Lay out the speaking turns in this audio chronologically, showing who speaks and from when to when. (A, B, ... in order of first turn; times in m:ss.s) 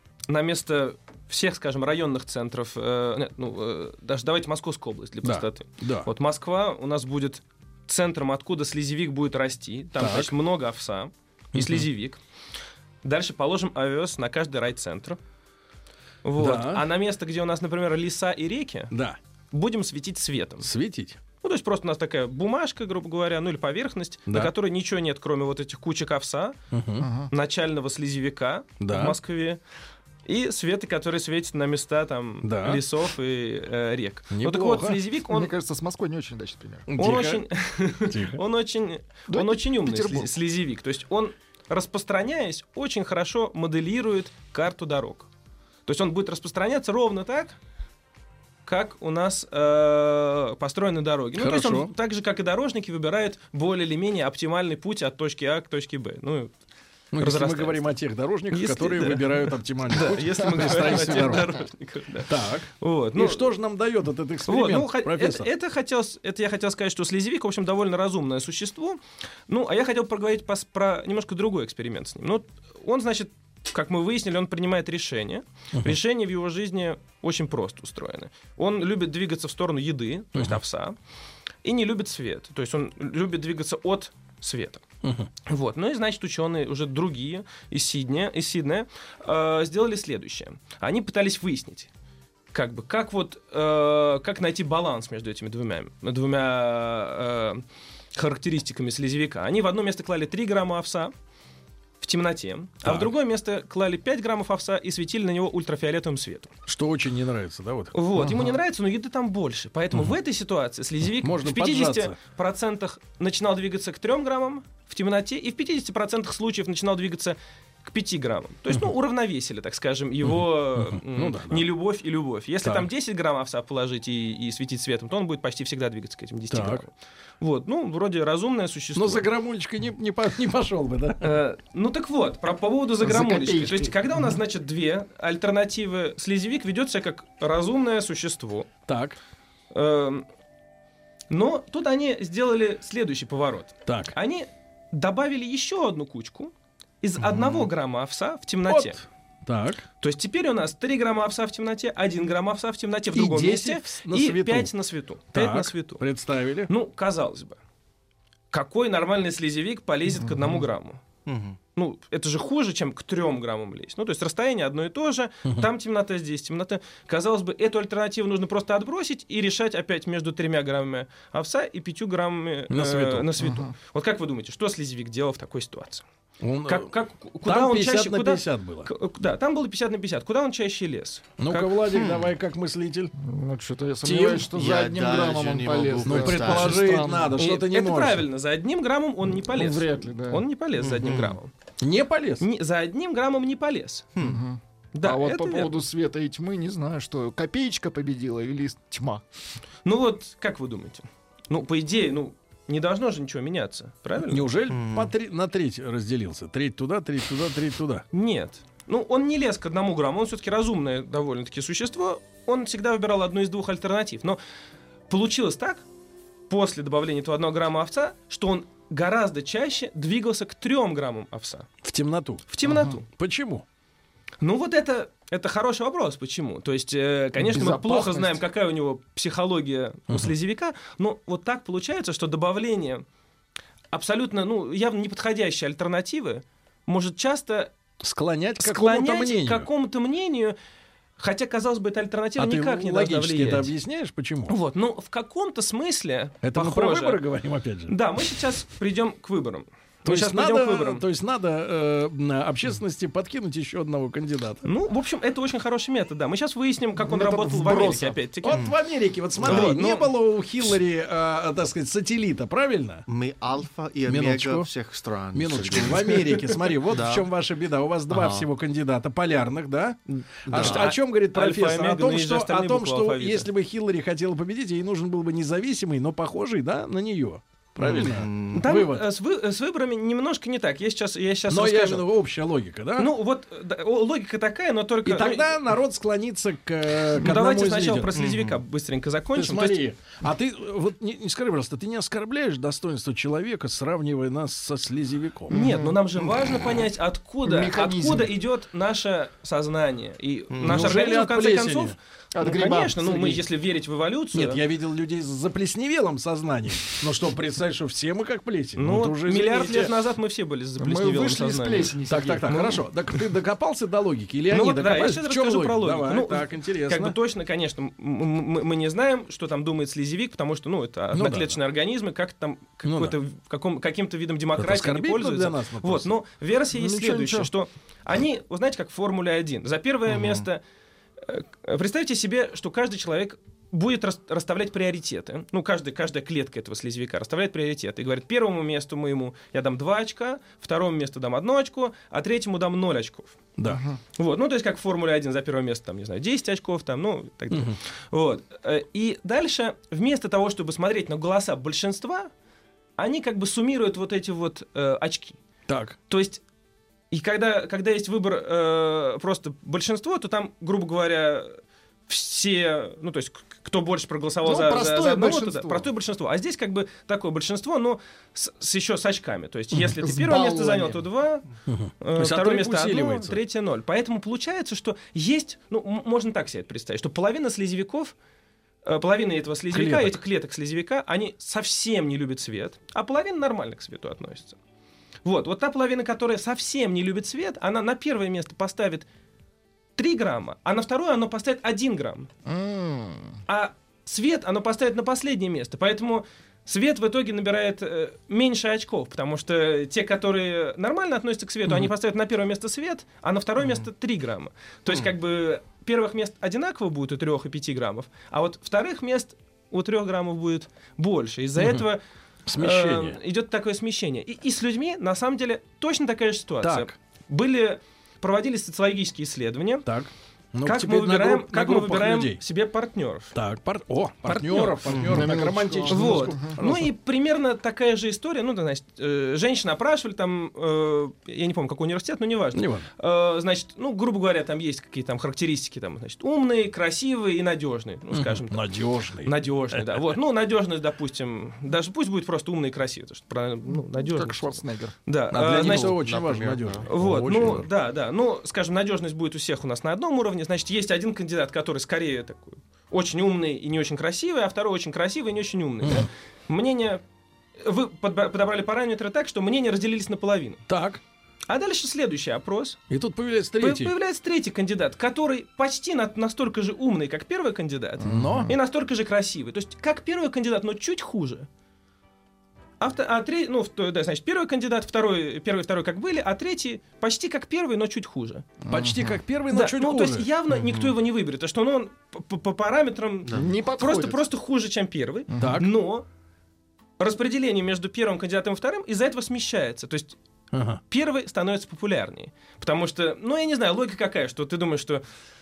0:00.3-0:12.2 A
0:05.2-0:06.1 B
0:10.0-0:10.3 B
0:11.5-0:11.9 B
0:13.0-0:15.2 A
0:16.2-0:18.9 A
0:16.4-0:16.8 B
0:18.9-0:19.2 B
0:19.5-0:20.7 A
0:20.6-0:21.2 B
0:21.4-0:26.6 A
0:24.3-0:24.5 B
0:26.7-0:27.1 B
0:27.0-0:27.3 C
0:27.3-0:29.6 A
0:28.8-0:29.2 B
0:30.3-0:35.5 A
0:32.4-0:32.8 B
0:34.3-0:35.0 B
0:35.3-0:36.9 C
0:36.9-0:37.5 B
0:37.0-0:45.3 A
0:38.1-0:38.4 B
0:39.3-0:40.3 C
0:45.9-0:47.6 A
0:48.7-0:56.5 A
0:51.4-0:51.9 B
0:57.1-1:01.5 B
0:57.2-0:57.9 A
0:58.5-1:03.5 A
1:02.3-1:05.5 B
1:04.5-1:21.0 A
1:20.4-1:20.6 B
1:21.6-1:24.8 A
1:25.0-1:25.3 B
1:25.4-1:31.9 A
1:32.5-1:37.6 A
1:38.2-1:41.1 A
1:42.0-1:46.5 A
1:42.8-1:43.1 B
1:46.7-1:47.9 B
1:47.9-2:09.3 A
1:48.2-1:48.5 C
1:51.2-1:52.2 B
2:00.2-2:01.7 B
2:02.6-2:02.9 B
2:06.5-2:06.8 B
2:09.0-2:11.4 B
2:11.2-2:18.7 A
2:13.0-2:14.2 C
2:18.9-2:19.2 B
2:19.7-2:20.3 A
2:21.3-2:29.0 A
2:23.9-2:24.1 B
2:27.3-2:27.7 D
2:28.7-2:29.8 B
2:30.0-2:36.0 A
2:33.1-2:34.7 B
2:35.3-2:36.7 B
2:36.7-2:37.6 A
2:38.5-2:41.0 A
2:41.3-2:41.6 D
2:41.8-2:56.0 A
2:52.7-2:53.3 B
2:53.4-2:53.7 C
2:56.4-2:58.9 B
2:56.6-3:01.9 A
3:01.4-3:03.1 B
3:01.9-3:02.3 D
3:03.2-3:07.4 C
3:04.0-3:04.5 B
3:04.5-3:07.1 D
3:06.0-3:08.2 B
3:07.4-3:11.5 A
3:09.4-3:10.4 C
3:10.8-3:11.4 D
3:11.8-3:12.5 B
3:12.4-3:14.1 A
3:14.2-3:14.4 D
3:14.2-3:19.2 C
3:15.0-3:15.7 A
3:19.8-3:24.5 A
3:24.2-3:28.0 B
3:24.7-3:25.1 D
3:28.1-3:34.4 A
3:35.1-3:35.8 A
3:36.5-3:41.7 A
3:41.8-3:42.5 B
3:42.5-3:43.1 A
3:42.7-3:42.9 C
3:43.0-3:43.6 B
3:44.4-3:53.0 A
3:47.4-3:48.4 C
3:53.9-3:57.7 A
3:58.0-3:59.7 B
3:58.6-4:00.6 A
4:01.2-4:03.7 A
4:02.4-4:04.6 B
4:04.5-4:07.2 A
4:06.4-4:08.0 B
4:07.9-4:11.0 A
4:10.0-4:14.7 B
4:14.6-4:18.7 A
4:17.0-4:18.2 C
4:18.4-4:23.1 B
4:18.5-4:18.8 D
4:19.4-4:19.9 D
4:19.4-4:20.1 A
4:23.1-4:27.3 D
4:24.0-4:24.7 B
4:25.3-4:39.1 B
4:28.1-4:28.5 D
4:30.5-4:33.5 A
4:30.5-4:30.9 D
4:37.8-4:38.7 D
4:38.5-4:42.1 A
4:41.5-4:43.1 B
4:43.0-4:45.7 A
4:45.0-4:48.2 B
4:47.2-4:49.8 A
4:48.1-4:48.6 D
4:49.3-4:55.5 B
4:55.5-4:56.0 C
4:55.5-5:04.6 A
4:57.4-4:58.3 C
5:00.5-5:01.0 D
5:00.6-5:02.0 B
5:02.3-5:03.5 C
5:04.3-5:09.9 B
5:08.8-5:12.8 A
5:10.8-5:12.7 C
5:12.1-5:17.2 B
5:14.5-5:30.6 A
5:21.1-5:21.6 B
5:22.8-5:23.2 B
5:24.6-5:26.1 B
5:26.7-5:27.5 C
5:31.2-5:43.4 A
5:43.6-5:43.8 B
5:43.7-5:44.0 C
5:44.2-5:52.3 A
5:47.5-5:47.8 B
5:53.0-5:55.4 A
5:55.7-5:56.0 B
5:56.1-5:56.4 A
5:57.1-6:11.5 A
6:04.4-6:05.9 C
6:09.9-6:11.0 C
6:11.7-6:13.4 B
6:12.0-6:18.2 A
6:18.8-6:24.6 A
6:19.7-6:20.2 B
6:25.2-6:29.1 A
6:30.0-6:32.3 A
6:32.5-6:33.4 C
6:33.5-6:52.0 A
6:51.6-6:51.8 B
6:52.5-6:53.2 B
6:52.6-6:59.9 A
6:56.6-6:57.0 B
6:59.8-7:02.4 B
7:00.6-7:03.4 A
7:03.3-7:06.9 B
7:04.2-7:04.9 A
7:04.9-7:05.3 D
7:05.0-7:06.6 C
7:05.9-7:18.7 A
7:12.5-7:12.9 B
7:18.1-7:20.2 B
7:19.2-7:26.0 A
7:23.8-7:25.0 C
7:25.3-7:27.7 B
7:25.4-7:26.9 D
7:26.8-7:37.0 A
7:35.8-7:36.1 B
7:37.6-7:40.6 A
7:40.7-7:41.0 B
7:41.5-7:42.8 A
7:42.9-7:43.9 B
7:43.6-7:51.5 A
7:48.0-7:48.5 C
7:48.0-7:48.5 B
7:52.8-7:58.5 A
7:58.6-7:59.2 C
7:58.7-8:00.3 B
7:59.5-8:06.1 A
8:00.5-8:01.0 D
8:03.3-8:03.6 D
8:03.3-8:04.2 C
8:05.3-8:05.6 C
8:05.4-8:05.7 B
8:07.0-8:10.2 A
8:10.5-8:10.8 B
8:10.9-8:15.0 A